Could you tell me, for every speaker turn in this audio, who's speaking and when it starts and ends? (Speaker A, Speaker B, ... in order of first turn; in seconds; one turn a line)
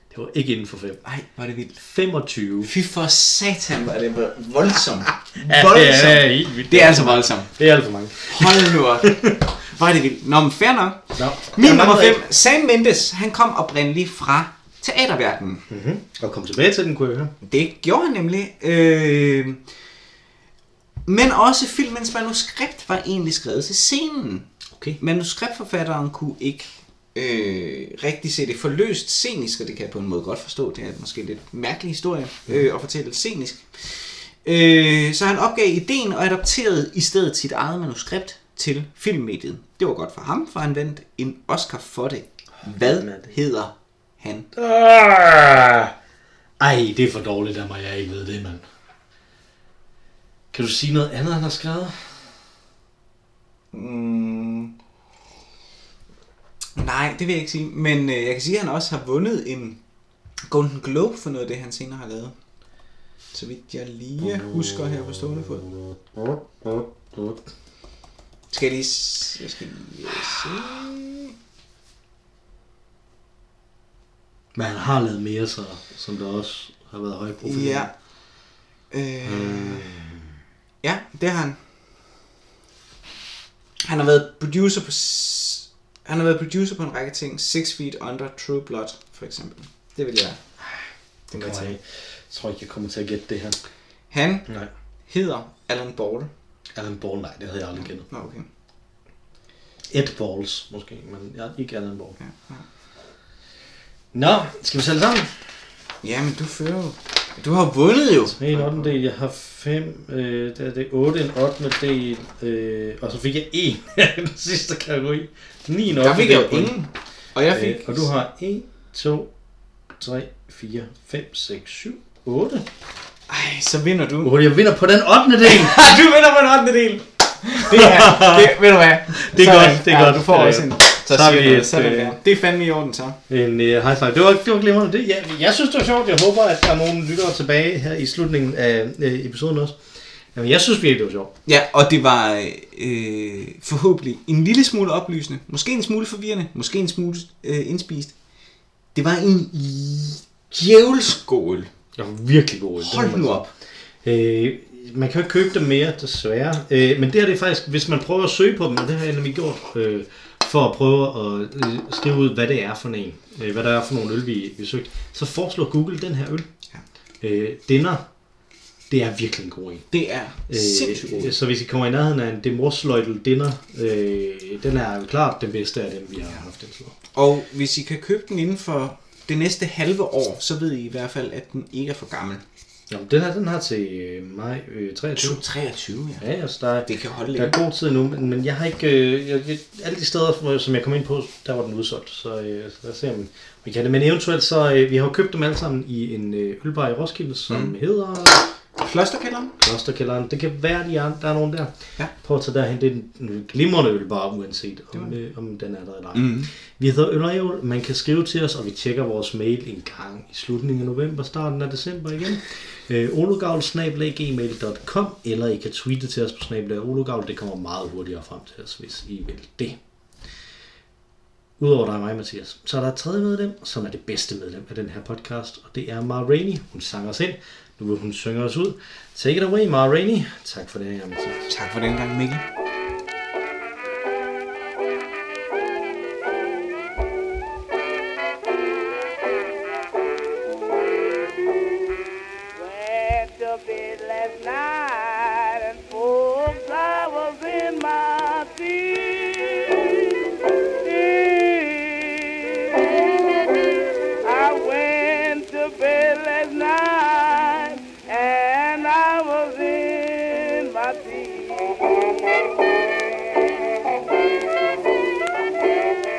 Speaker A: 0.1-1.0
Speaker B: 1.1-1.8
Speaker A: 1.8-2.7
Speaker B: 2.6-7.5
Speaker A: 5.4-9.4
Speaker B: 8.2-15.6
Speaker A: 11.2-12.2
Speaker A: 15.7-17.3
Speaker B: 17.4-19.6
Speaker B: 21.1-44.5
Speaker A: 42.8-43.3
Speaker A: 44.5-45.9
Speaker A: 46.6-48.6
Speaker A: 50.5-52.1
Speaker B: 53.7-54.7
Speaker B: 56.8-59.8
Speaker B: 60.5-62.3
Speaker B: 63.3-65.7
Speaker A: 64.2-67.4
Speaker B: 68.5-71.3
Speaker A: 74.5-77.9
Speaker B: 77.4-77.9
Speaker B: 78.9-79.9
Speaker A: 79.2-80.3
Speaker B: 80.8-81.6
Speaker B: 83.8-90.4
Speaker B: 91.3-91.8
Speaker A: 91.3-93.6
Speaker B: 94.1-94.5
Speaker B: 95.1-96.3
Speaker A: 96.8-98.1
Speaker B: 97.8-98.5
Speaker A: 99.9-102.2
Speaker B: 102.2-102.7
Speaker A: 104.1-105.3
Speaker B: 106.0-108.8
Speaker A: 108.3-116.8
Speaker B: 116.0-118.1
Speaker A: 117.5-119.3
Speaker A: 120.0-122.7
Speaker B: 123.3-124.4
Speaker A: 124.2-125.8
Speaker B: 125.4-133.2
Speaker A: 127.7-128.6
Speaker A: 129.1-132.2
Speaker A: 133.3-139.8
Speaker A: 140.3-141.3
Speaker B: 141.5-148.2
Speaker B: 148.9-151.7
Speaker A: 152.0-153.4
Speaker B: 152.8-153.5
Speaker A: 154.0-166.5
Speaker A: 167.2-168.1
Speaker A: 168.9-169.9
Speaker B: 169.9-171.4
Speaker A: 170.5-176.9
Speaker B: 177.1-182.4
Speaker A: 182.9-185.4
Speaker B: 185.2-186.2
Speaker A: 186.2-198.4
Speaker B: 186.9-187.6
Speaker B: 198.8-199.6
Speaker A: 199.6-219.8
Speaker B: 206.1-206.5
Speaker A: 221.6-231.5
Speaker B: 231.5-232.4
Speaker C: 241.0-241.9
Speaker C: 242.6-253.7
Speaker C: 254.2-264.7